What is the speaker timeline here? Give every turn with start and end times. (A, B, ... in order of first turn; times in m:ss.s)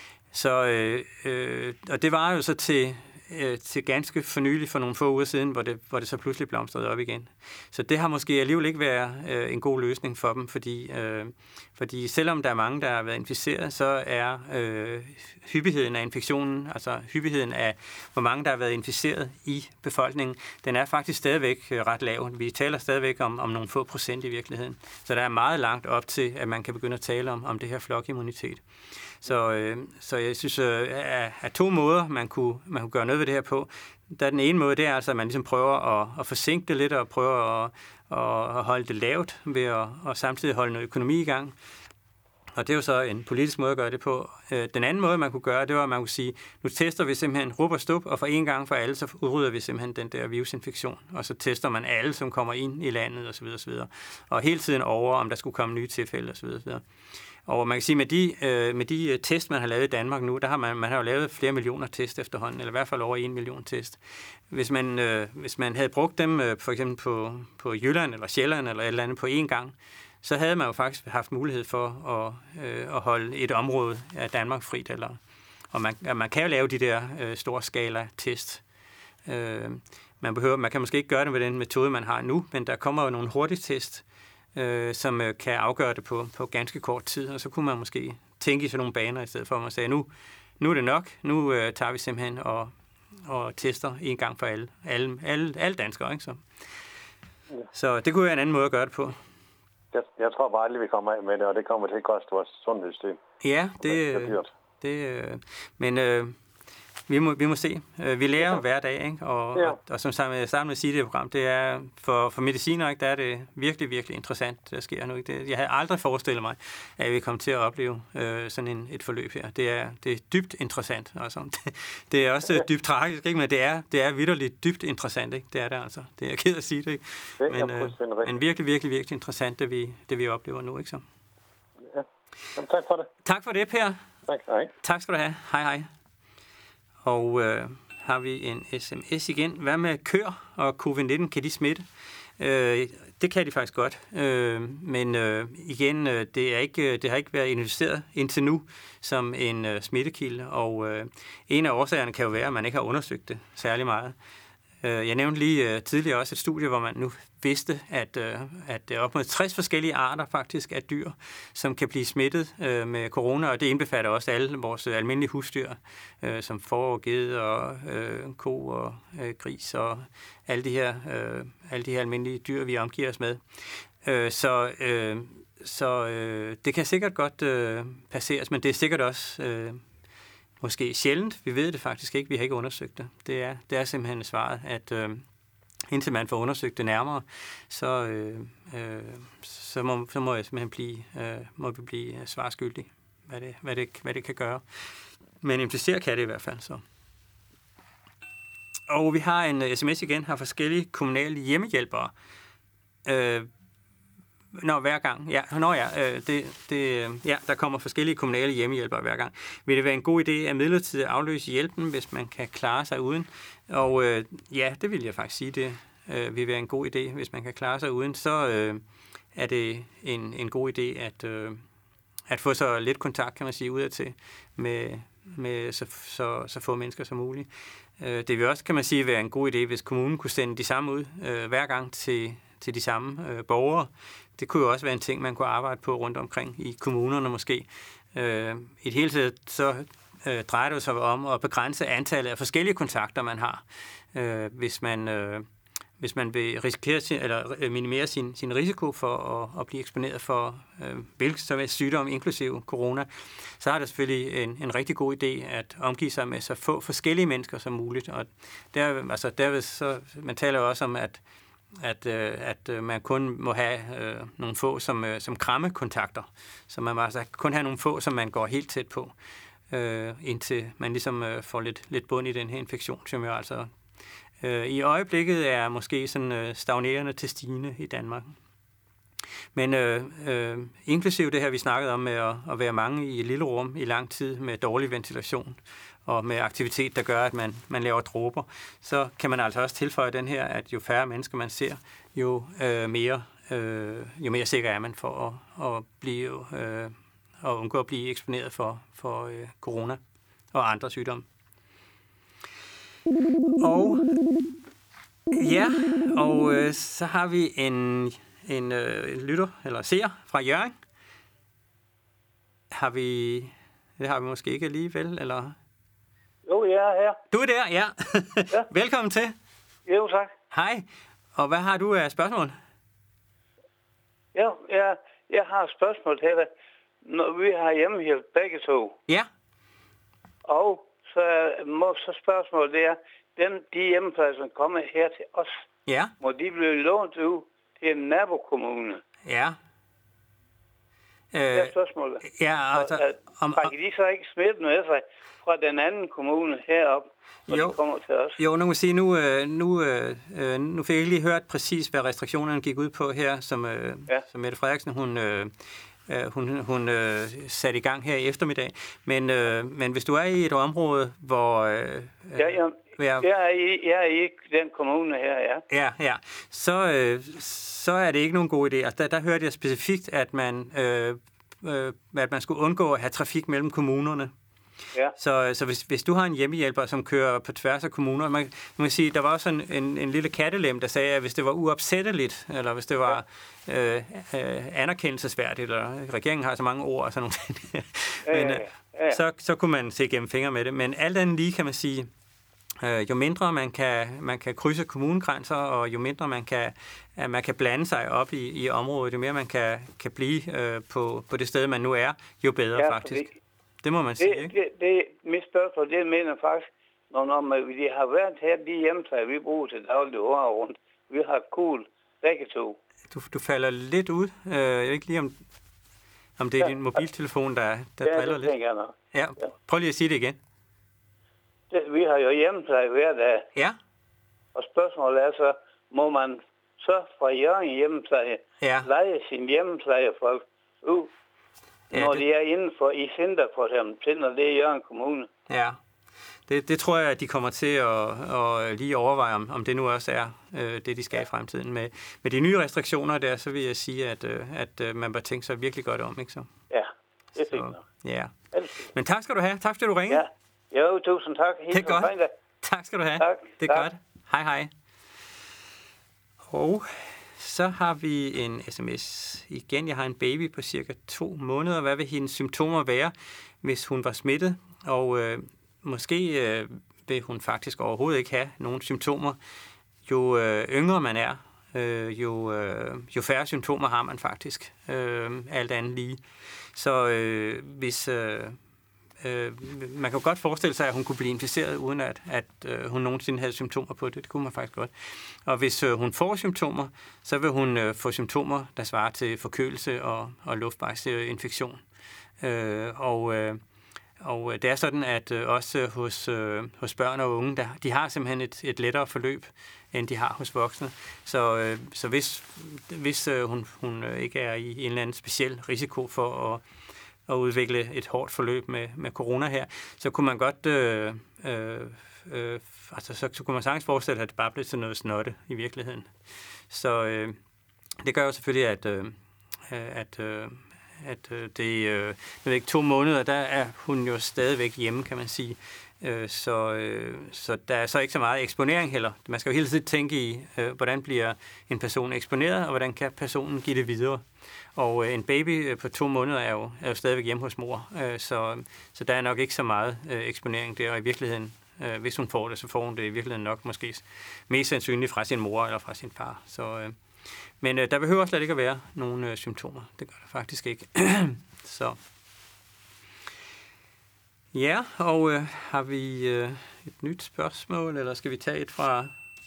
0:00.3-0:28.6 A
0:29.2-0:41.6 A
0:42.6-0:56.8 A
0:57.4-1:04.0 A
1:04.5-1:15.2 A
1:15.7-1:18.6 A
1:19.2-1:24.0 A
1:24.5-1:32.7 A
1:33.2-1:36.4 A
1:37.7-1:39.2 A
1:39.9-1:43.2 B
1:43.4-1:46.4 A
1:43.8-1:44.5 B
1:47.1-2:11.0 A
2:07.4-2:08.4 B
2:11.9-2:13.1 B
2:13.2-2:14.0 A
2:14.3-2:14.7 B
2:14.8-2:15.9 A
2:17.0-2:21.8 A
2:22.4-2:34.2 A
2:34.8-2:53.4 A
2:54.0-2:59.8 A
3:00.6-3:05.2 A
3:05.9-3:14.6 A
3:15.4-3:16.8 A
3:18.9-3:22.1 A
3:23.0-3:23.5 A
3:24.5-3:38.8 A
3:39.3-3:41.6 A
3:42.3-4:05.5 A
4:06.0-4:21.2 A
4:21.8-4:29.1 A
4:29.7-4:33.7 A
4:34.4-4:38.4 A
4:39.5-5:00.0 A
5:00.5-5:01.2 A
5:03.6-5:04.1 A
5:05.3-5:10.8 A
5:12.7-5:15.6 A
5:16.4-5:17.2 C
5:17.3-5:19.3 A
5:19.8-5:20.3 C
5:20.5-5:22.6 A
5:24.3-5:26.5 C
5:27.0-5:28.9 C
5:30.5-5:35.6 C
5:35.9-5:36.1 A
5:36.2-5:39.0 C
5:39.2-5:39.6 A
5:41.3-5:41.7 A
5:41.5-5:48.4 C
5:42.2-5:43.7 A
5:47.5-5:47.8 A
5:48.4-5:55.5 A
5:56.1-6:03.2 A
6:02.4-6:05.6 C
6:05.7-6:14.3 A
6:15.2-6:32.1 A
6:28.3-6:29.2 C
6:32.8-6:43.3 A
6:42.8-6:43.3 C
6:43.8-6:44.5 A
6:44.2-6:52.8 C
6:53.1-6:55.4 A
6:56.4-6:58.5 A
6:56.6-6:57.0 C
6:58.0-6:58.9 C
6:59.1-7:00.4 A
7:01.7-7:03.5 C
7:04.5-7:11.1 C
7:08.6-7:08.9 A
7:11.9-7:12.2 A
7:11.9-7:15.3 C
7:15.5-7:15.8 A
7:16.5-7:26.5 A
7:26.7-7:27.8 C
7:27.5-7:28.3 A
7:28.5-7:28.9 C
7:28.9-7:30.2 A
7:30.1-7:32.3 C
7:31.7-7:34.7 A
7:33.2-7:33.9 C
7:36.5-7:49.4 A
7:50.0-7:56.2 A
7:56.7-7:58.6 A
7:59.2-8:11.8 A
8:12.4-8:13.6 A
8:14.2-8:26.6 A
8:27.3-8:36.1 A
8:36.7-8:37.4 A
8:38.0-8:39.2 A
8:39.7-8:54.2 A
8:54.8-9:07.0 A
9:07.6-9:12.0 A
9:14.5-9:19.1 A